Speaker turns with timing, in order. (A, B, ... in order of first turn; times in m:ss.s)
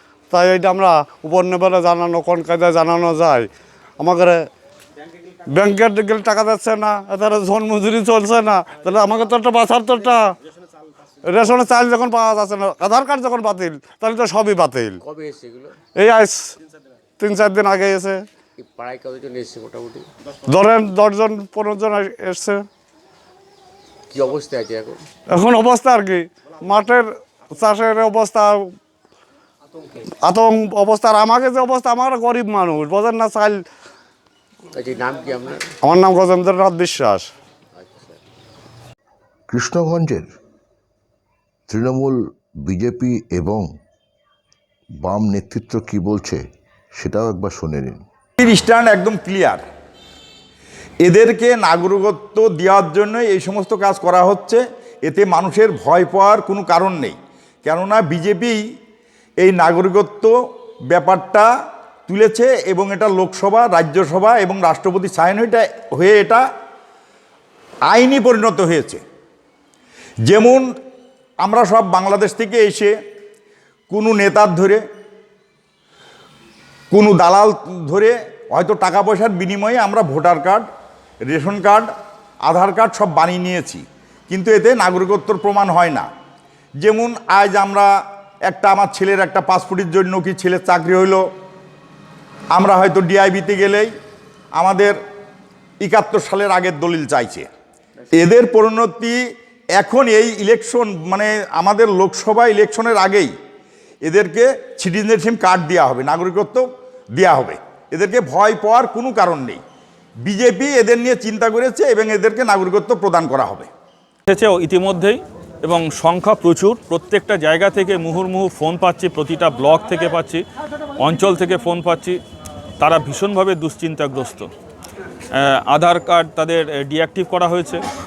0:00.3-0:04.4 A
0:05.5-0:10.3 A
0:11.2-0:15.0 A
0:15.0-0:15.8 B
0:15.9-0:16.5 A
0:17.2-0:18.2 A
0:18.6-0:20.1 B
0:20.5-0:22.6 A
0:24.1-0:25.0 B
0:25.3-0:28.7 A
0:30.2-0:33.6 A
0:34.7-0:35.7 B
0:35.8-0:37.3 A
0:37.8-0:38.2 B
0:39.5-0:40.3 C
0:41.7-0:43.6 C
0:45.0-0:46.4 C
0:47.0-0:48.0 C
0:48.4-0:49.6 D
0:51.0-0:58.6 D
0:59.4-1:00.3 D
1:00.9-1:01.5 D
1:02.1-1:06.4 D
1:07.9-1:09.0 D
1:10.3-1:10.7 D
1:11.4-1:13.0 D
1:13.9-1:14.8 D
1:16.9-1:20.7 D
1:21.3-1:21.9 D
1:22.4-1:26.1 D
1:26.8-1:27.9 D
1:28.5-1:31.2 D
1:32.5-1:33.9 D
1:34.5-1:35.0 D
1:35.8-1:37.5 D
1:38.1-1:39.2 D
1:39.8-1:43.3 D
1:44.0-1:49.6 D
1:50.2-1:53.7 D
1:54.3-2:00.4 E
2:01.0-2:02.2 E
2:02.8-2:04.5 E
2:05.3-2:07.8 E